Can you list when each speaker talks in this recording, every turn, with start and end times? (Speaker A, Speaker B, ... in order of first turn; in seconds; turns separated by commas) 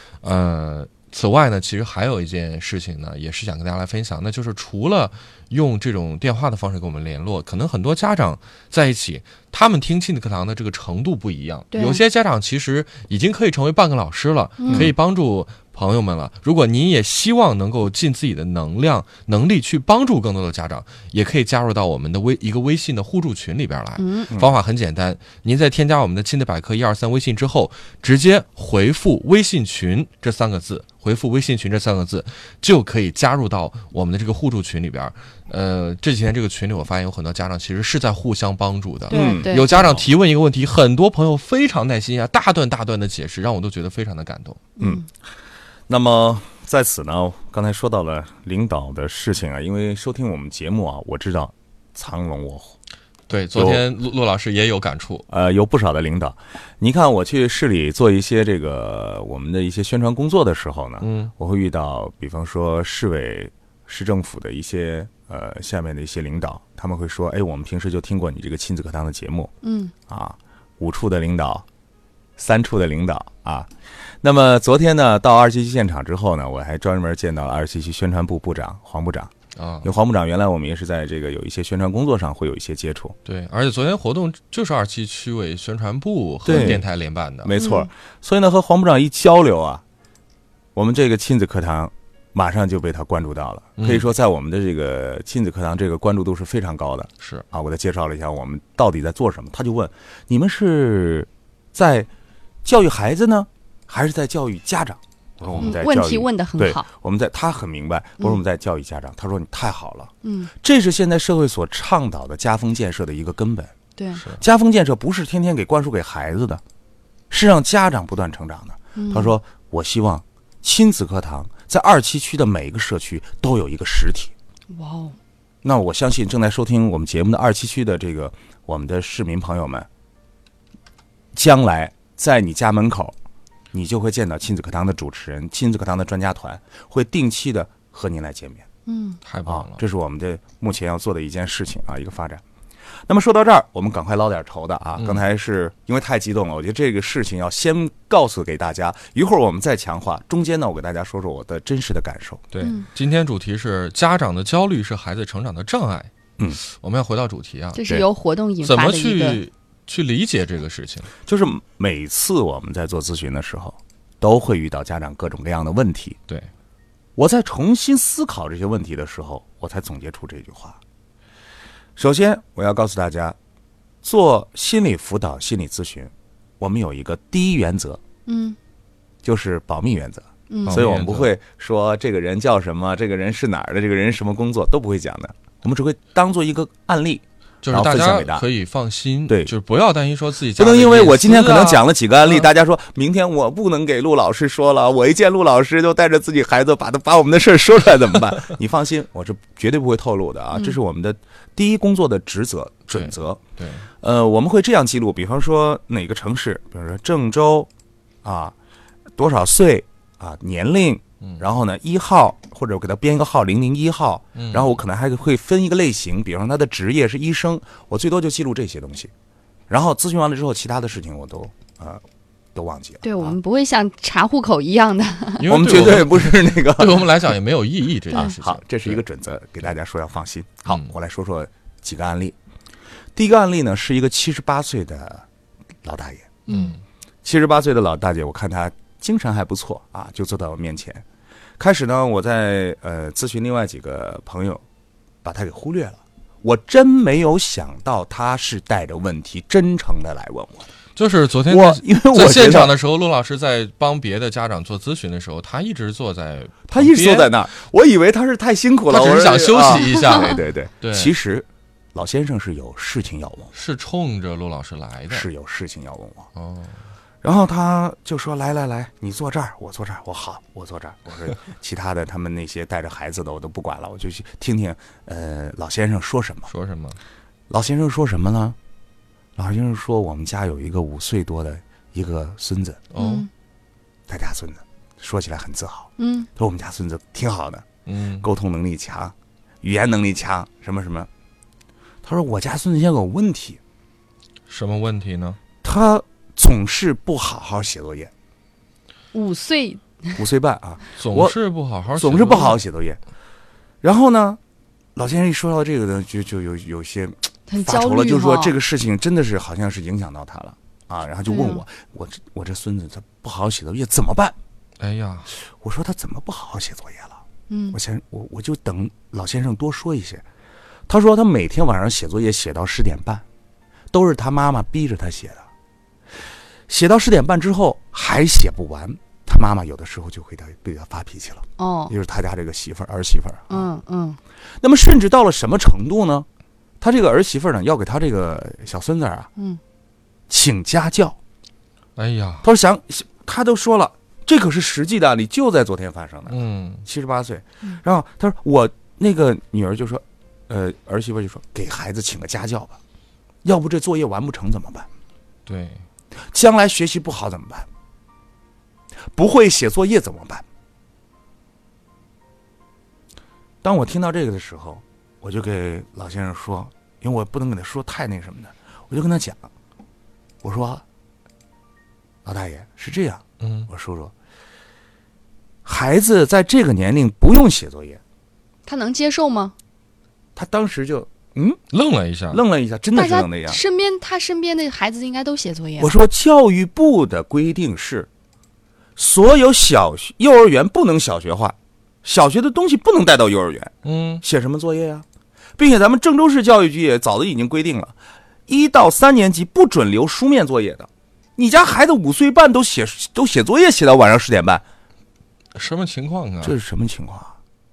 Speaker A: 0.2-44.6, Speaker B: 11.7-12.0, Speaker B: 14.6-14.9, Speaker B: 24.0-24.3, Speaker C: 24.3-24.6, Speaker B: 39.1-39.8, Speaker C: 39.1-40.0, Speaker B: 44.8-45.0, Speaker C: 44.8-45.0, Speaker C: 45.9-52.8, Speaker A: 53.3-55.3, Speaker C: 53.5-53.8, Speaker C: 55.3-69.5, Speaker A: 61.0-61.3, Speaker B: 69.6-69.9, Speaker C: 70.1-71.6, Speaker C: 72.4-73.7, Speaker C: 74.2-83.2, Speaker A: 79.5-79.9, Speaker A: 83.2-87.5, Speaker C: 86.4-86.8, Speaker C: 87.4-89.8, Speaker B: 87.6-87.9, Speaker C: 90.7-102.1, Speaker A: 93.8-94.1, Speaker C: 102.6-113.7, Speaker A: 105.4-105.8, Speaker B: 105.6-106.9, Speaker B: 110.2-110.5, Speaker B: 114.0-114.2, Speaker C: 114.3-116.6, Speaker C: 117.3-124.3, Speaker B: 119.0-119.3, Speaker B: 124.7-125.2, Speaker C: 125.6-129.9, Speaker C: 131.3-133.2, Speaker C: 133.7-138.7, Speaker B: 138.9-139.2, Speaker A: 139.2-139.8, Speaker C: 139.4-142.4, Speaker C: 143.1-152.4, Speaker A: 145.0-145.2, Speaker A: 152.5-157.8, Speaker B: 152.6-152.8, Speaker B: 157.7-159.4, Speaker A: 158.6-161.1, Speaker C: 161.2-166.2, Speaker C: 167.2-170.8, Speaker C: 171.9-173.4, Speaker C: 174.0-178.0, Speaker B: 178.3-178.6, Speaker C: 179.2-188.5, Speaker B: 180.5-180.8, Speaker A: 180.7-181.3, Speaker A: 187.6-192.5, Speaker C: 190.6-203.4, Speaker A: 202.9-203.9, Speaker C: 204.0-207.7, Speaker C: 208.2-208.5, Speaker C: 209.2-219.1, Speaker A: 214.3-214.8, Speaker C: 219.7-222.0, Speaker C: 222.5-223.4, Speaker B: 223.0-225.5, Speaker A: 225.4-229.0, Speaker C: 225.4-227.1, Speaker C: 228.1-232.3, Speaker C: 233.1-235.2, Speaker C: 235.8-236.4, Speaker B: 236.5-236.7, Speaker A: 236.5-236.8, Speaker C: 237.2-241.0, Speaker C: 241.6-244.6, Speaker C: 245.2-250.7, Speaker A: 250.9-257.4, Speaker C: 251.4-252.7, Speaker C: 256.7-263.5, Speaker A: 258.9-261.1, Speaker A: 263.5-265.3, Speaker C: 265.1-266.3, Speaker A: 266.4-266.8, Speaker C: 267.2-276.5, Speaker A: 276.5-277.0, Speaker C: 277.5-278.6, Speaker C: 279.4-282.8, Speaker A: 282.9-283.3, Speaker B: 283.0-283.3, Speaker C: 284.1-287.6, Speaker B: 286.0-286.3, Speaker A: 287.9-288.2, Speaker C: 288.2-291.1, Speaker C: 292.0-293.6, Speaker A: 294.5-295.4, Speaker C: 295.6-298.1, Speaker B: 299.1-300.2, Speaker C: 300.2-301.4, Speaker A: 300.9-302.6, Speaker C: 301.9-303.0, Speaker C: 303.8-304.4, Speaker C: 304.9-314.4, Speaker B: 307.5-308.5, Speaker B: 311.2-311.6, Speaker A: 314.8-315.3, Speaker C: 315.3-317.2, Speaker B: 317.5-317.8, Speaker C: 317.7-320.2, Speaker C: 320.9-323.2, Speaker C: 323.9-325.5, Speaker C: 326.7-333.7, Speaker B: 331.6-331.9, Speaker B: 333.5-334.2, Speaker C: 334.6-336.3, Speaker C: 336.8-339.3, Speaker C: 340.3-341.2, Speaker A: 341.9-342.5, Speaker C: 342.4-352.8, Speaker A: 346.3-346.8, Speaker C: 353.4-354.9, Speaker A: 355.4-355.8, Speaker C: 356.3-357.7, Speaker C: 359.1-360.4, Speaker C: 363.6-369.5, Speaker C: 370.4-370.8, Speaker C: 372.2-374.1, Speaker A: 373.4-373.7, Speaker C: 375.6-378.0, Speaker B: 378.6-379.5, Speaker C: 380.4-381.6, Speaker A: 381.7-382.4, Speaker C: 382.3-383.6, Speaker B: 382.9-385.9, Speaker C: 385.8-388.1, Speaker C: 388.9-395.0, Speaker A: 393.8-394.2, Speaker C: 395.6-397.9, Speaker C: 398.5-404.6, Speaker A: 405.5-406.6, Speaker C: 406.4-407.4